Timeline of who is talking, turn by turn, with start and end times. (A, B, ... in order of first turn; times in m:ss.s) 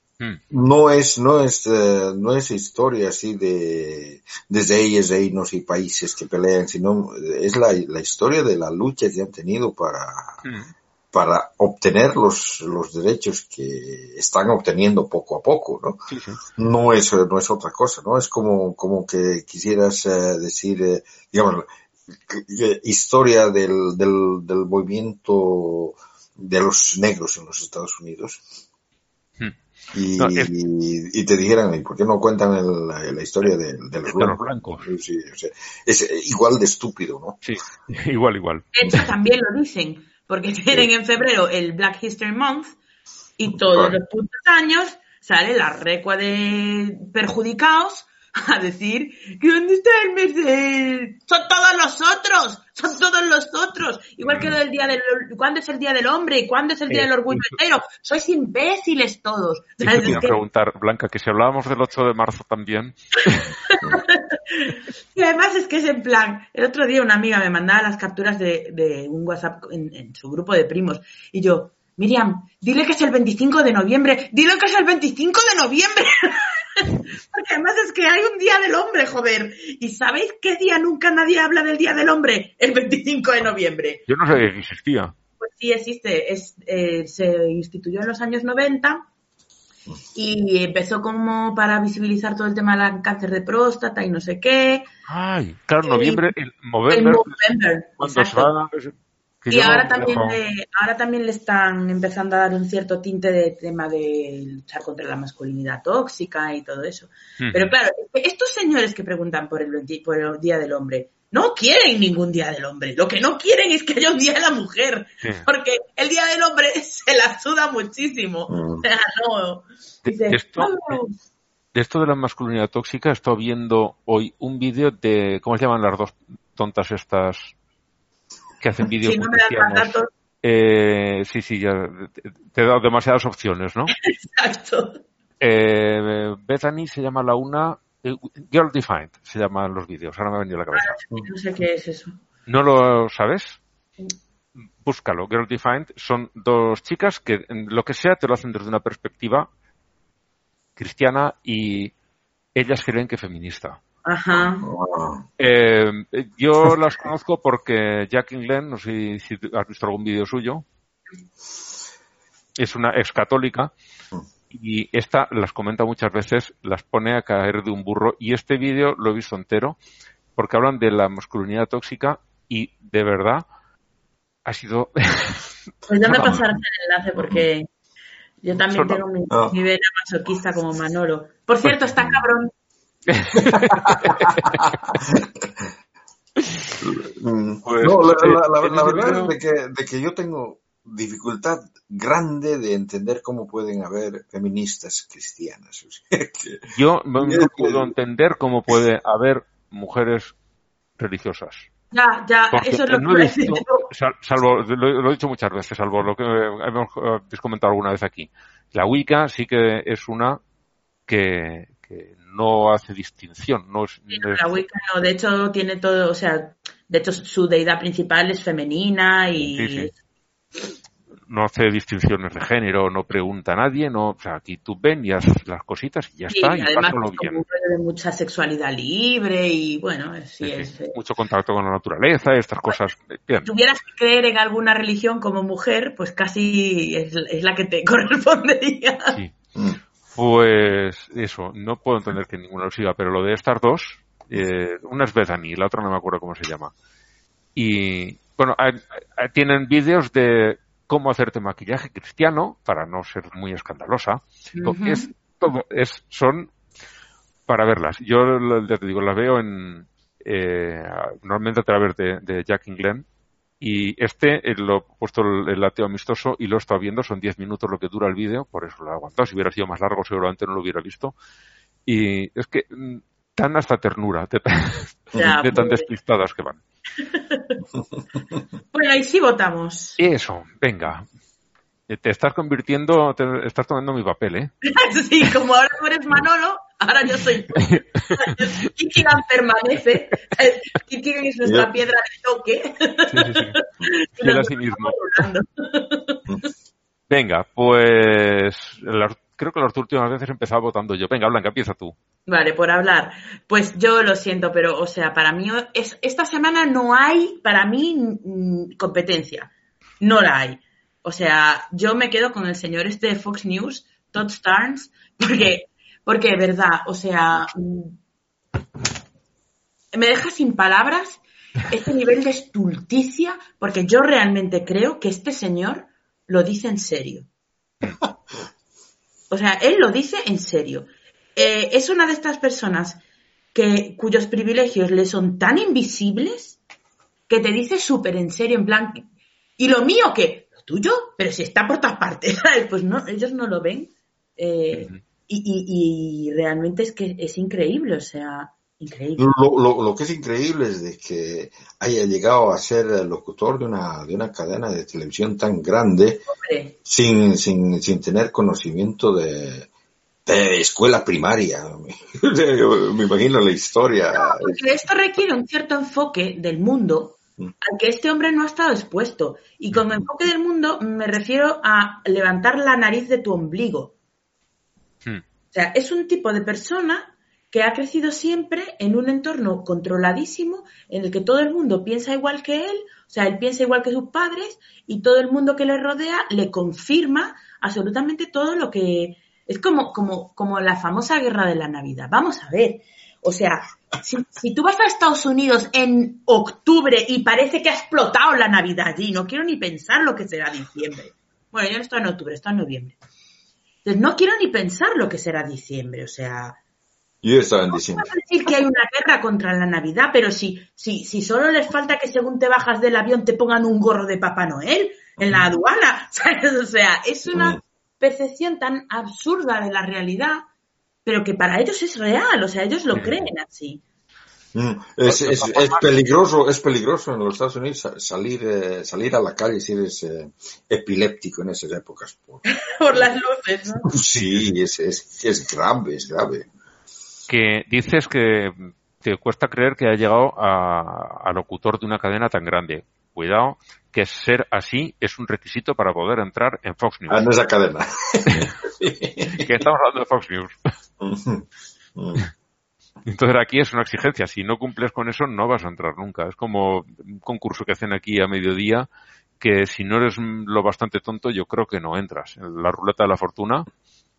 0:00.5-0:10.4 A
0:10.4-0:10.7 B
0:11.1-0:28.4 A
0:16.1-0:16.4 B
0:29.9-0:37.4 A
0:30.2-0:30.5 B
0:34.1-0:34.9 B
0:37.4-0:39.0 B
0:38.8-0:42.8 C
0:43.4-1:00.4 C
0:43.5-0:44.0 A
0:54.3-0:54.5 B
0:56.9-0:57.6 B
0:59.8-1:03.6 B
1:03.7-1:24.1 C
1:24.1-1:25.1 B
1:25.4-1:29.0 C
1:30.2-1:34.9 C
1:35.1-1:37.4 B
1:35.8-1:36.3 C
1:36.9-1:38.5 C
1:38.0-1:40.4 B
1:39.5-2:01.2 C
1:47.4-1:47.8 B
1:58.5-1:58.8 A
2:00.0-2:01.0 B
2:01.7-2:07.5 B
2:08.6-2:13.9 B
2:09.0-2:10.1 C
2:14.0-2:15.0 C
2:15.4-2:21.0 B
2:20.7-2:22.2 C
2:22.5-2:23.6 B
2:24.8-2:29.5 B
2:30.8-2:31.9 B
2:32.6-2:33.8 B
2:34.1-2:34.7 C
2:34.6-2:35.3 A
2:35.4-2:40.6 B
2:42.6-2:43.7 B
2:44.5-2:49.8 B
2:50.4-2:53.4 B
2:54.4-2:55.5 B
2:55.9-2:57.7 C
2:56.1-2:56.6 A
2:57.2-2:57.4 A
2:58.4-3:02.5 C
2:58.7-2:59.0 B
2:59.3-2:59.6 A
3:03.1-3:04.7 B
3:03.5-3:05.7 A
3:06.8-3:17.9 A
3:07.6-3:09.4 B
3:16.7-3:20.3 B
3:21.0-3:21.7 B
3:21.9-3:23.9 C
3:22.5-3:30.4 B
3:31.1-3:34.6 B
3:34.1-3:39.9 C
3:39.4-3:39.9 B
3:41.3-3:47.4 B
3:46.3-3:51.0 C
3:50.4-3:53.5 B
3:53.4-3:59.2 C
4:00.1-4:06.7 B
4:07.6-4:16.5 B
4:14.5-4:15.1 C
4:17.5-4:23.0 B
4:23.6-4:31.1 B
4:31.9-4:36.6 B
4:35.2-4:35.9 C
4:37.0-4:37.6 C
4:38.7-4:40.0 C
4:40.0-4:41.0 B
4:41.9-4:44.5 B
4:44.6-4:56.2 C
4:53.1-4:53.5 B
4:54.2-4:55.0 B
4:57.1-5:02.0 B
5:02.3-5:18.0 C
5:19.9-5:27.3 C
5:29.3-5:33.0 C
5:33.5-5:36.6 C
5:37.3-5:39.1 C
5:39.6-5:49.3 C
5:49.2-5:56.3 A
5:56.3-5:56.8 C
5:56.8-5:59.7 A
6:00.3-6:04.6 A
6:04.1-6:14.0 C
6:15.5-6:43.0 C
6:43.8-6:46.6 C
6:47.2-6:48.1 A
6:47.7-7:00.4 C
6:57.3-6:57.6 A
7:01.1-7:03.8 C
7:04.5-7:13.0 A
7:05.0-7:05.9 B
7:12.5-7:13.9 C
7:13.8-7:16.5 A
7:17.3-7:27.3 B
7:27.1-7:29.5 A
7:29.3-7:30.6 B
7:31.0-7:32.3 A
7:33.1-7:38.9 B
7:39.4-7:43.7 B